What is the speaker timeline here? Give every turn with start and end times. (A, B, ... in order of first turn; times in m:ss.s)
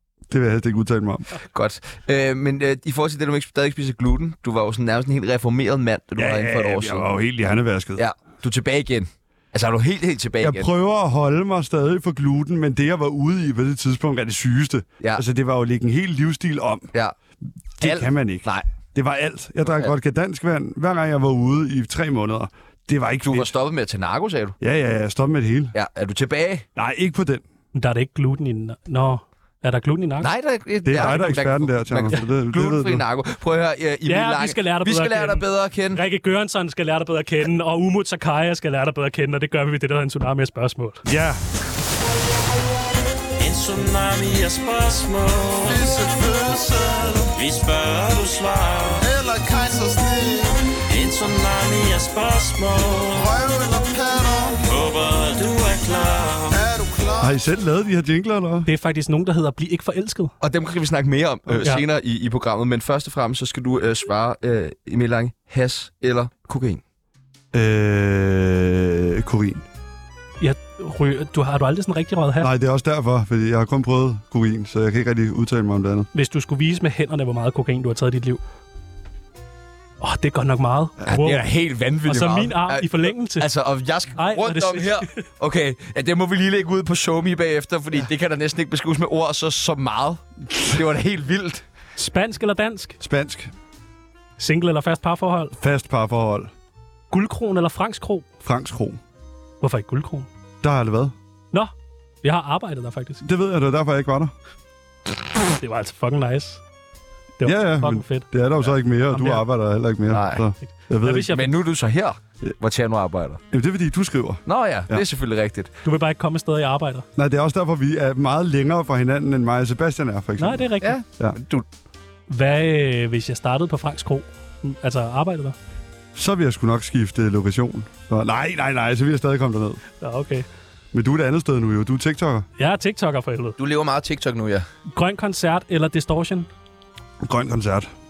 0:00.3-0:01.3 A
0:01.5-0:07.1 B
0:06.2-0:08.0 A
0:08.0-0:10.7 B
0:10.4-0:16.9 A
0:17.8-0:23.5 A
0:17.8-0:18.6 B
0:19.6-0:19.9 B
0:23.2-0:24.6 B
0:24.6-0:25.7 A
0:25.7-0:26.6 B
0:26.8-0:27.4 A
0:27.7-0:30.3 C
0:30.2-0:36.0 B
0:30.8-0:33.0 A
0:34.1-0:41.0 C
0:41.0-0:41.4 A
0:43.4-0:45.9 D
0:45.6-0:47.3 E
0:47.3-0:49.1 D
0:49.0-0:50.6 E
0:50.9-0:53.3 D
0:53.1-0:54.8 E
0:54.7-0:56.6 D
0:56.5-0:57.4 E
0:57.2-0:58.7 A
0:58.6-1:00.3 C
1:00.4-1:06.8 B
1:07.5-1:09.6 A
1:10.4-1:12.5 C
1:12.4-1:16.1 A
1:16.1-1:18.4 C
1:20.0-1:21.4 C
1:21.0-1:31.6 B
1:22.0-1:23.5 C
1:24.2-1:25.1 C
1:32.0-1:33.0 C
1:33.0-1:33.5 A
1:34.4-1:35.6 C
1:35.6-1:36.5 A
1:37.1-1:38.2 C
1:38.4-1:39.0 A
1:39.6-1:40.3 C
1:40.6-1:41.1 A
1:42.2-1:43.2 C
1:43.2-1:44.3 A
1:45.6-1:46.6 C
1:47.4-1:48.3 C
1:47.4-1:51.4 A
1:49.1-1:49.4 C
1:50.1-1:50.4 B
1:51.0-1:51.5 C
1:51.2-1:53.4 B
1:53.5-1:55.0 A
1:54.4-1:55.7 B
1:55.8-1:57.0 C
1:57.2-2:01.4 A
2:00.4-2:01.0 C
2:00.8-2:01.6 B
2:02.3-2:05.6 C
2:06.1-2:09.8 A
2:10.0-2:10.5 C
2:10.9-2:12.5 A
2:12.6-2:13.6 C
2:13.6-2:14.7 B
2:14.9-2:16.5 C
2:17.2-2:17.9 A